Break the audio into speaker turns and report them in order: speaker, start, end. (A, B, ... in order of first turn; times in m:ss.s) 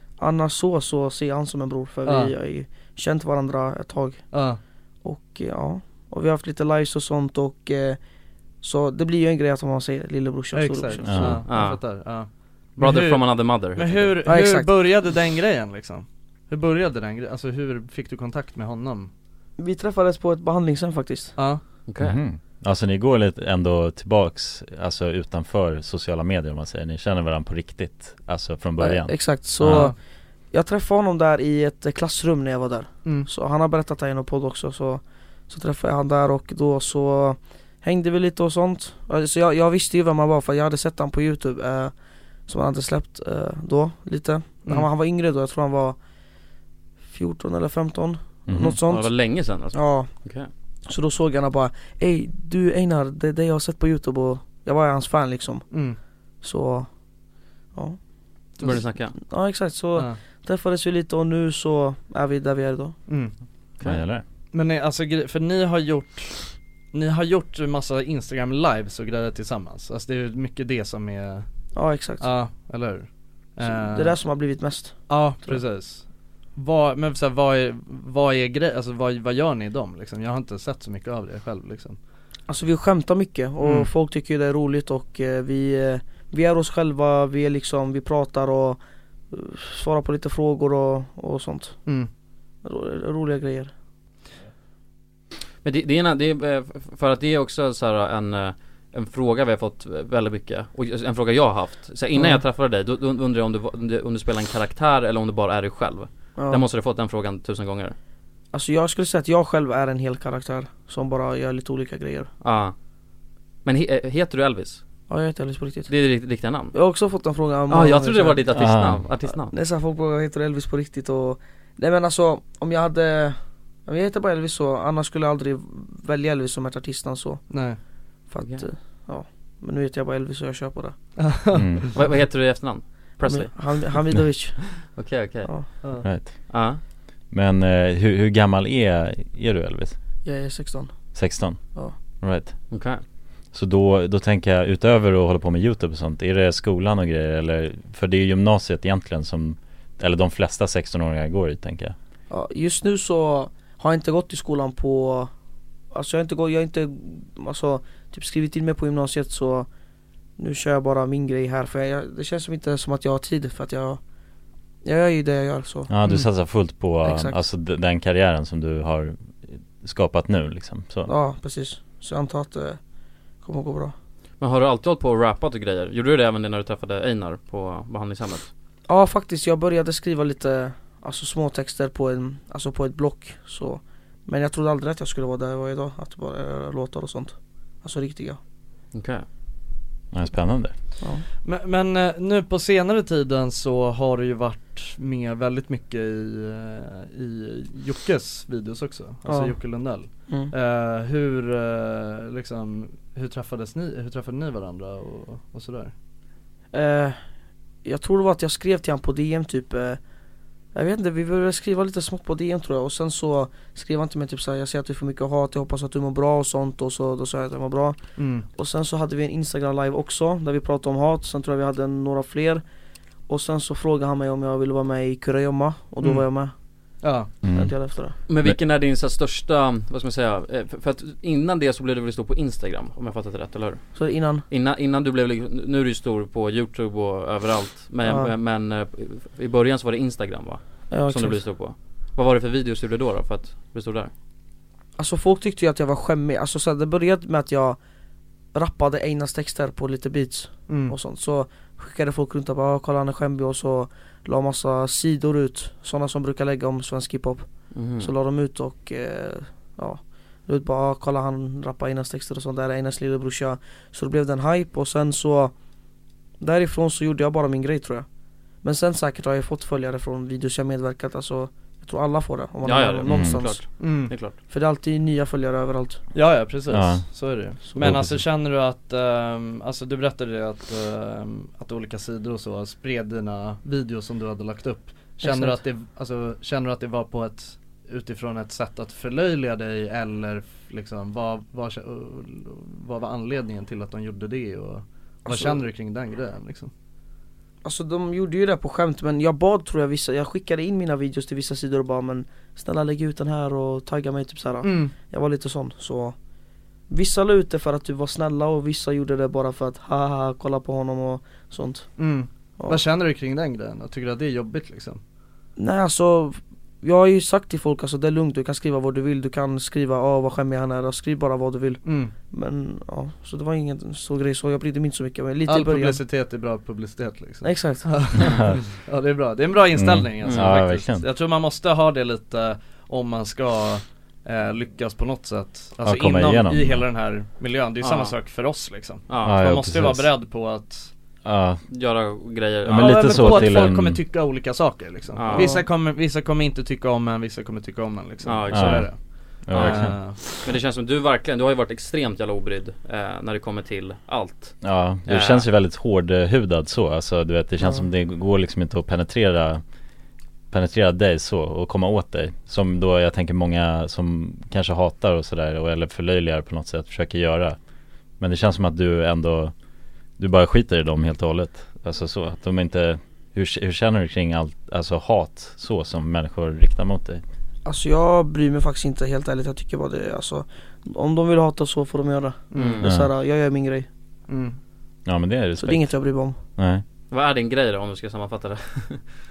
0:00.2-0:04.4 A
0:02.0-0:02.3 B
0:04.3-0:04.6 B
0:05.0-0:08.0 A
0:08.6-0:11.4 A
0:10.5-0:19.1 B
0:11.0-0:11.4 C
0:11.5-0:12.1 D
0:12.8-0:14.2 D
0:14.2-0:14.7 A
0:19.6-0:21.4 A
0:21.4-0:21.6 B
0:21.9-0:22.2 D
0:22.0-0:29.9 C
0:28.8-0:30.0 A
0:29.6-0:30.0 B
0:30.5-0:42.0 A
0:42.5-0:46.0 A
0:47.1-0:49.1 A
0:48.5-0:48.8 C
0:48.9-0:50.5 D
0:49.7-0:50.1 A
0:50.9-0:55.7 A
0:55.7-0:56.0 B
0:56.4-0:56.9 A
0:57.7-0:58.0 A
0:58.6-0:58.8 B
0:58.6-0:59.1 D
0:59.1-1:03.0 A
1:03.1-1:03.3 B
1:03.8-1:04.2 C
1:04.5-1:11.4 B
1:11.7-1:12.3 A
1:12.2-1:14.2 B
1:13.6-1:15.6 A
1:15.1-1:22.0 B
1:22.5-1:31.9 A
1:23.6-1:23.9 B
1:32.6-1:33.7 A
1:35.6-1:48.0 D
1:42.1-1:42.4 A
1:46.4-1:46.6 A
1:48.5-1:52.3 A
1:52.4-1:52.7 D
1:53.6-1:54.8 D
1:55.1-1:55.9 A
1:55.9-1:56.7 D
1:56.7-1:58.5 A
1:57.7-1:59.5 D
1:58.5-1:59.1 C
1:59.5-2:07.6 A
2:07.5-2:07.8 B
2:08.3-2:11.0 A
2:08.4-2:08.6 D
2:11.2-2:11.9 B
2:11.5-2:11.9 C
2:12.0-2:14.0 D
2:13.2-2:14.6 A
2:14.6-2:15.5 D
2:15.4-2:15.8 A
2:16.0-2:16.5 C
2:16.5-2:16.8 D
2:17.3-2:20.0 C
2:20.2-2:20.9 A
2:21.1-2:21.6 C
2:22.2-2:22.6 C
2:22.7-2:23.0 D
2:23.5-2:32.0 C
2:32.3-2:35.3 A
2:35.9-2:39.7 A
2:40.4-2:44.0 A
2:44.8-2:45.9 A
2:45.9-2:51.1 C
2:47.0-2:47.4 A
2:51.0-2:52.8 A
2:53.4-2:53.9 A
2:54.4-2:58.5 D
2:58.9-3:08.4 A
3:08.9-3:09.2 D
3:10.1-3:10.7 C
3:11.4-3:25.9 B
3:19.2-3:20.5 A
3:26.7-3:27.2 A
3:27.8-3:30.0 A
3:30.7-3:38.0 A
3:38.2-3:38.5 B
3:38.6-3:42.6 A
3:43.3-3:46.5 A
3:47.0-3:47.3 B
3:47.4-3:47.7 C
3:47.5-3:48.2 A
3:48.3-4:04.1 D
3:53.9-3:54.4 A
3:58.0-3:58.3 A
4:00.9-4:01.4 A
4:05.0-4:07.8 A
4:08.5-4:25.5 A
4:10.7-4:11.0 B
4:17.7-4:18.1 D
4:26.4-4:28.0 A
4:28.6-4:36.0 A
4:32.6-4:34.4 D
4:33.1-4:33.4 C
4:33.8-4:34.1 B
4:36.1-4:56.7 B
4:36.7-4:37.1 C
4:37.7-4:38.2 C
4:45.2-4:45.6 A
4:55.3-4:55.6 A
4:57.6-5:06.2 A
5:04.6-5:04.9 B
5:06.9-5:12.8 A
5:12.0-5:15.0 B
5:15.6-5:26.0 A
5:21.8-5:22.1 B
5:25.4-5:40.9 B
5:27.4-5:28.0 A
5:28.2-5:28.6 C
5:29.7-5:31.1 C
5:30.2-5:30.5 D
5:35.8-5:36.8 C
5:37.8-5:38.1 D
5:39.1-5:39.4 D
5:39.2-5:40.1 C
5:41.2-5:41.6 C
5:41.7-5:43.7 D
5:42.6-5:44.0 C
5:42.7-5:50.4 B
5:45.1-5:45.5 D
5:45.3-5:45.6 A
5:48.2-5:49.0 D
5:48.5-5:50.0 C
5:49.5-5:55.4 D
5:54.6-5:59.6 C
5:57.6-5:57.8 A
6:00.5-6:07.6 C
6:08.2-6:09.5 C
6:10.2-6:17.2 C
6:17.6-6:23.9 A
6:22.5-6:22.8 B
6:22.5-6:22.9 D
6:22.8-6:23.1 C
6:24.3-6:24.6 B
6:25.0-6:26.0 C
6:25.6-6:26.4 A
6:26.6-6:26.8 C
6:27.1-6:29.0 D